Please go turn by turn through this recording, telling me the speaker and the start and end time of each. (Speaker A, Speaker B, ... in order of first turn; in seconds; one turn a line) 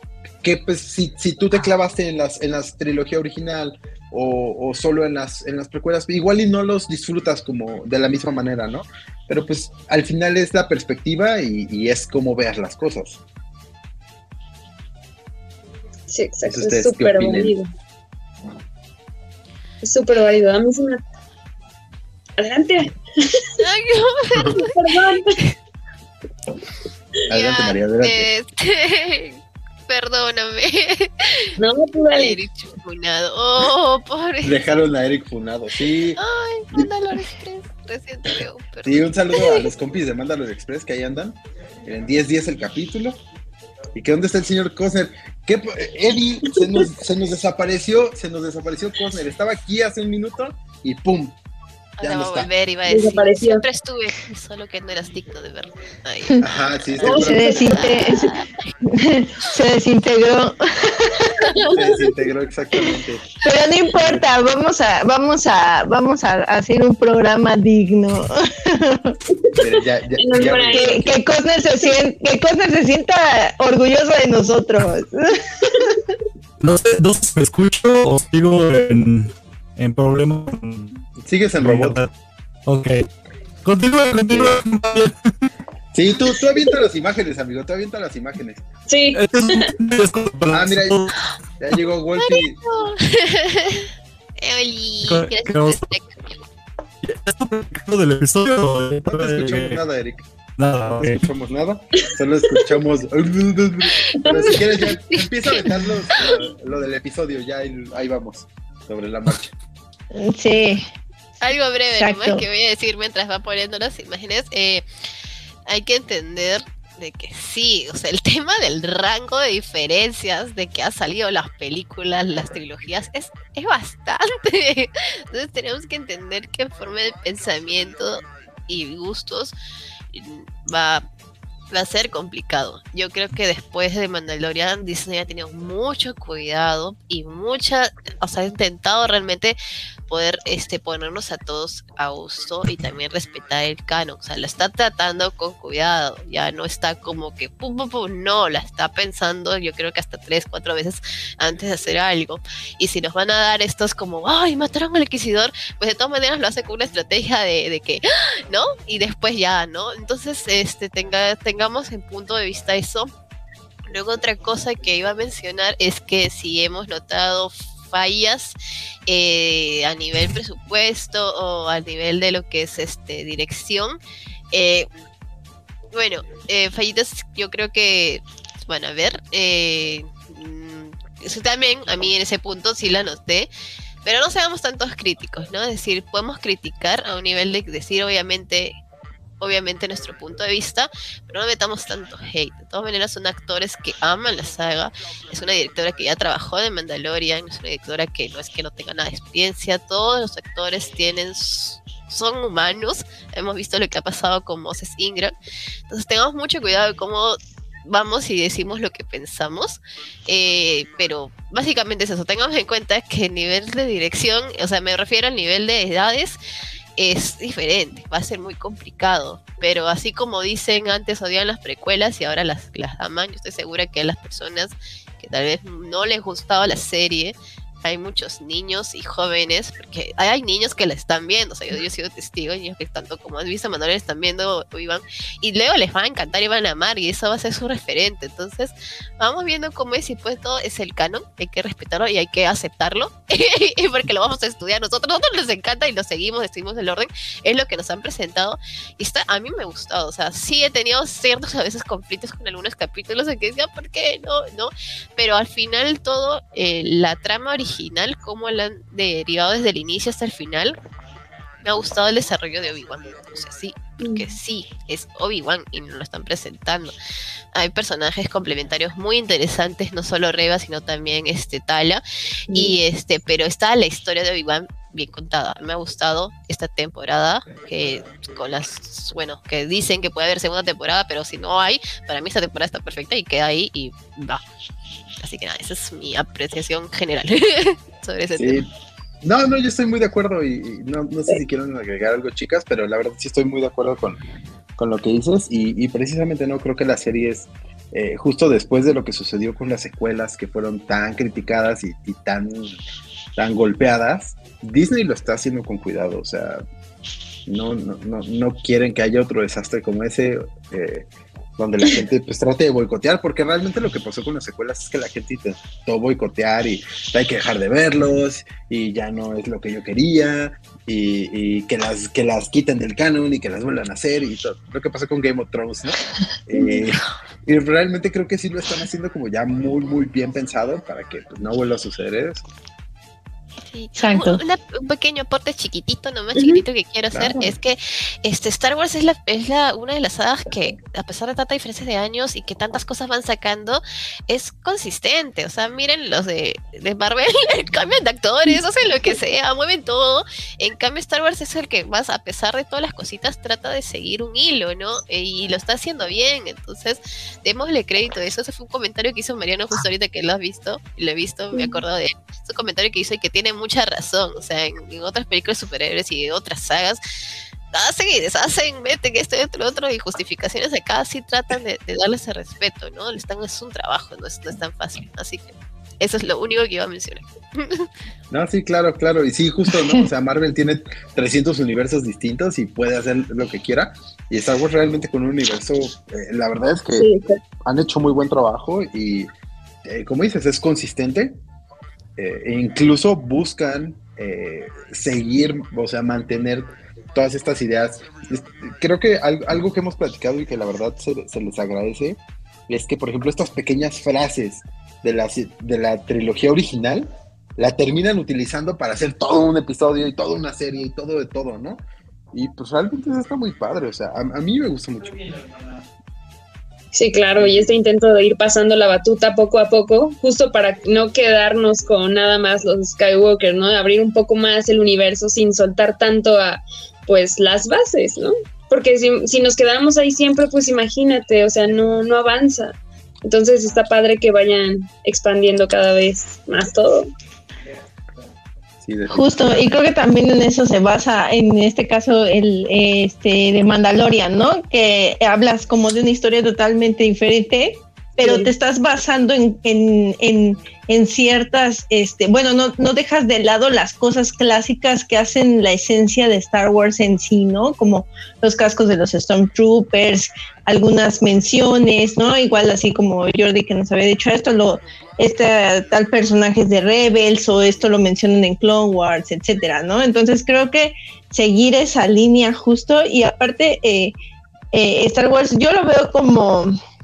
Speaker A: 0.4-13.2
Speaker B: 16.1-17.7
Speaker A: 16.4-17.6
Speaker B: 19.8-21.0
Speaker B: 22.4-23.5
Speaker C: 23.6-25.4
Speaker B: 24.4-25.4
Speaker A: 27.3-28.3
Speaker C: 27.3-31.5
Speaker B: 31.6-32.4
Speaker C: 32.1-34.6
Speaker A: 34.4-36.2
Speaker C: 36.2-39.5
Speaker A: 38.8-43.2
Speaker A: 44.0-51.4
Speaker C: 52.0-58.7
Speaker A: 52.0-52.5
Speaker B: 52.9-53.6
Speaker A: 56.4-57.8
Speaker B: 57.0-57.8
Speaker D: 57.1-61.5
Speaker A: 61.6-63.4
Speaker D: 63.4-69.2
Speaker A: 63.9-64.3
Speaker A: 69.5-71.2
Speaker B: 70.2-71.0
Speaker D: 70.8-75.9
Speaker E: 76.6-81.0
Speaker A: 81.2-82.0
Speaker E: 81.6-82.1
Speaker E: 82.7-83.0
Speaker E: 83.7-85.4
Speaker A: 84.3-84.6
Speaker A: 85.9-88.7
Speaker B: 88.9-89.7
Speaker E: 89.2-91.1
Speaker A: 90.5-91.1
Speaker A: 91.6-92.6
Speaker C: 92.2-96.3
Speaker E: 95.1-95.8
Speaker E: 97.0-99.8
Speaker A: 99.0-100.3
Speaker E: 100.6-101.2
Speaker A: 100.9-109.5
Speaker B: 102.0-102.6
Speaker B: 104.1-104.6
Speaker D: 110.1-110.9
Speaker C: 111.4-114.8
Speaker D: 112.0-112.5
Speaker C: 115.7-129.5
Speaker C: 130.1-131.1
Speaker C: 131.7-139.6
Speaker C: 140.1-163.1
Speaker C: 163.9-168.6
Speaker C: 169.1-174.0
Speaker C: 174.5-174.9
Speaker C: 175.9-183.5
Speaker C: 184.1-188.8
Speaker C: 189.4-205.3
Speaker C: 205.9-216.4
Speaker C: 217.0-260.8
Speaker C: 261.6-266.9
Speaker B: 264.0-264.3
Speaker C: 267.5-284.4
Speaker C: 285.2-288.6
Speaker A: 288.4-288.7
Speaker A: 289.2-294.2
Speaker A: 294.8-302.8
Speaker A: 303.4-306.6
Speaker A: 307.5-332.4
Speaker C: 333.7-367.0
Speaker D: 334.0-334.4
Speaker B: 336.4-336.6
Speaker A: 337.1-337.5
Speaker C: 367.7-377.9
Speaker A: 378.3-387.1
Speaker B: 387.0-387.4
Speaker A: 387.6-389.3
Speaker A: 389.8-391.4
Speaker A: 392.2-415.2
Speaker B: 416.9-437.1
Speaker A: 417.4-417.7
Speaker A: 438.8-439.6
Speaker D: 439.1-474.1
Speaker B: 448.2-448.5
Speaker D: 474.7-476.8